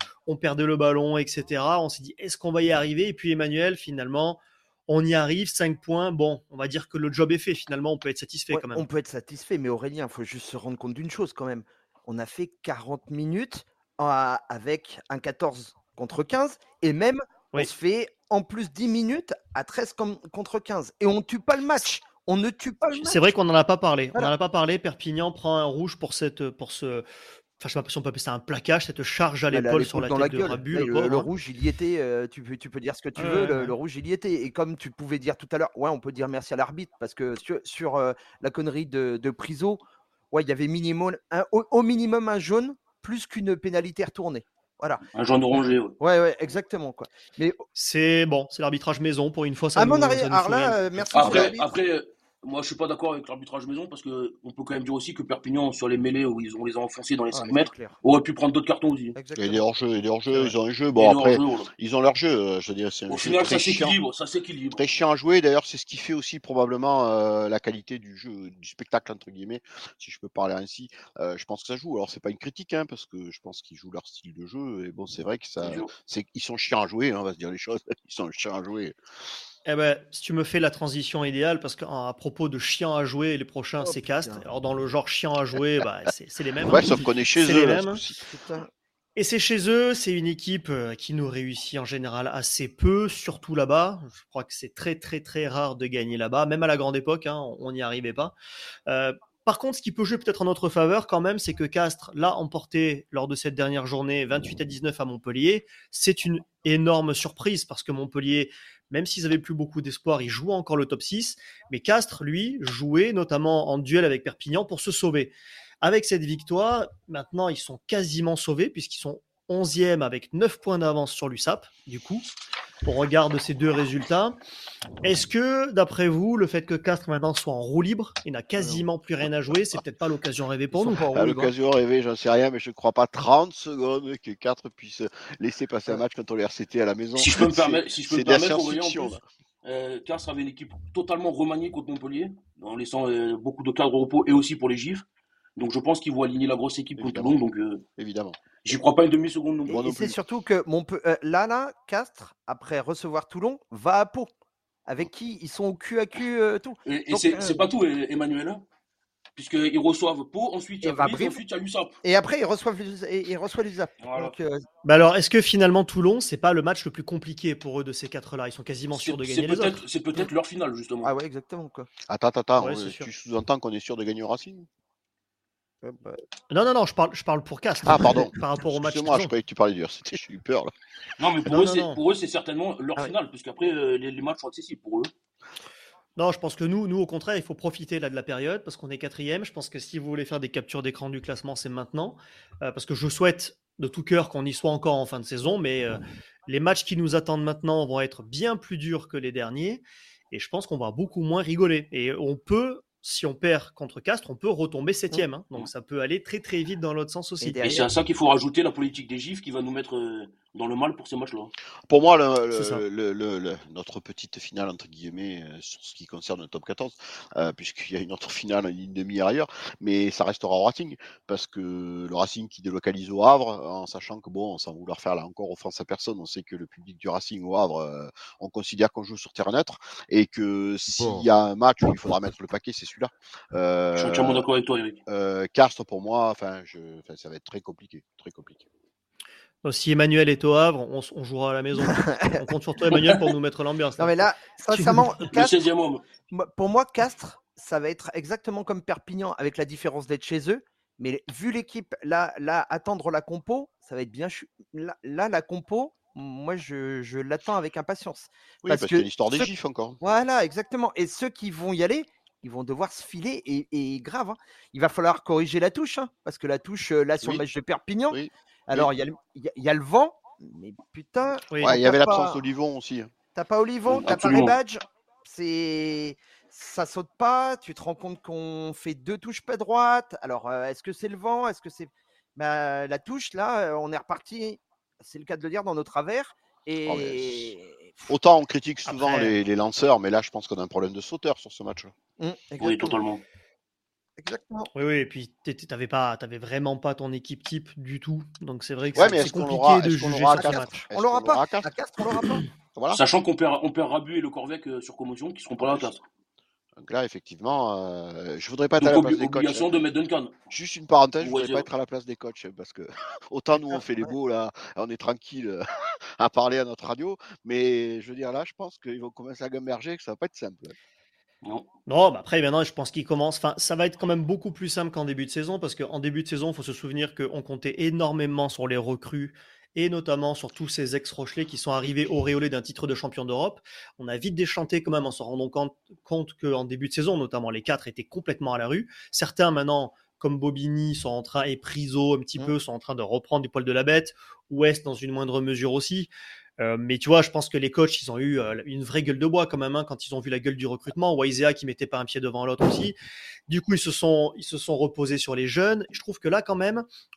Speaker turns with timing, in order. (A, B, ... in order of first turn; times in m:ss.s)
0:00.3-0:08.9 A
0:08.5-0:23.2 B
0:23.0-0:27.1 A
0:27.6-0:31.3 A
0:29.5-0:39.8 B
0:33.2-0:33.8 A
0:40.3-0:45.0 B
0:45.2-0:46.0 C
0:45.5-0:47.6 B
0:47.8-0:51.4 A
0:49.8-0:51.6 B
0:51.2-0:59.2 C
0:51.3-0:51.5 D
0:57.3-0:58.0 B
0:59.2-0:59.6 B
0:59.4-1:04.0 D
1:01.0-1:01.7 C
1:03.1-1:04.8 C
1:04.7-1:19.0 D
1:15.6-1:15.9 C
1:19.7-1:28.0 A
1:23.8-1:24.4 B
1:26.6-1:28.2 D
1:28.3-1:28.7 B
1:29.2-1:38.3 A
1:38.9-2:02.3 A
2:02.8-2:04.4 A
2:05.0-2:11.0 A
2:08.6-2:08.9 B
2:10.7-2:11.5 B
2:11.1-2:19.2 D
2:17.2-2:25.0 C
2:25.6-2:27.8 C
2:27.0-2:27.4 D
2:28.0-2:28.4 D
2:28.6-2:30.1 C
2:29.7-2:34.3 B
2:29.7-2:30.1 D
2:34.9-2:37.7 B
2:36.9-2:38.6 C
2:39.4-2:42.0 C
2:40.8-2:41.4 B
2:42.0-2:44.6 B
2:44.0-2:44.4 C
2:44.8-2:49.8 A
2:48.9-2:51.1 C
2:51.0-2:51.9 B
2:52.1-2:54.7 D
2:52.6-2:53.1 A
2:55.8-2:56.2 B
2:56.5-2:59.3 A
2:57.8-3:00.7 D
3:01.2-3:05.1 C
3:01.4-3:02.0 A
3:06.2-3:27.6 A
3:27.4-3:27.9 B
3:27.6-3:31.5 C
3:31.9-3:54.5 D
3:32.5-3:32.8 A
3:51.0-3:51.2 B
3:54.0-3:55.0 C
3:55.1-3:58.7 D
3:59.6-4:04.2 A
4:01.9-4:02.4 B
4:02.9-4:03.3 C
4:04.0-4:05.6 B
4:04.7-4:05.1 A
4:05.3-4:06.0 C
4:06.3-4:32.4 B
4:18.6-4:20.0 D
4:28.1-4:28.9 D
4:31.6-4:33.1 D
4:33.4-4:48.1 B
4:33.9-4:34.6 D
4:34.1-4:34.4 C
4:46.9-4:47.5 D
4:48.1-4:51.9 D
4:48.9-4:49.4 A
4:52.2-4:53.0 B
4:52.6-4:53.2 C
4:54.2-4:54.7 B
4:54.8-5:00.7 A
4:59.0-5:01.7 D
5:00.4-5:02.5 B
5:02.7-5:03.0 D
5:02.9-5:06.0 C
5:05.6-5:05.9 D
5:06.8-5:09.7 D
5:08.8-5:10.4 C
5:10.5-5:15.7 D
5:11.2-5:11.7 C
5:16.2-5:20.8 D
5:21.9-5:53.0 A
5:53.5-5:56.9 A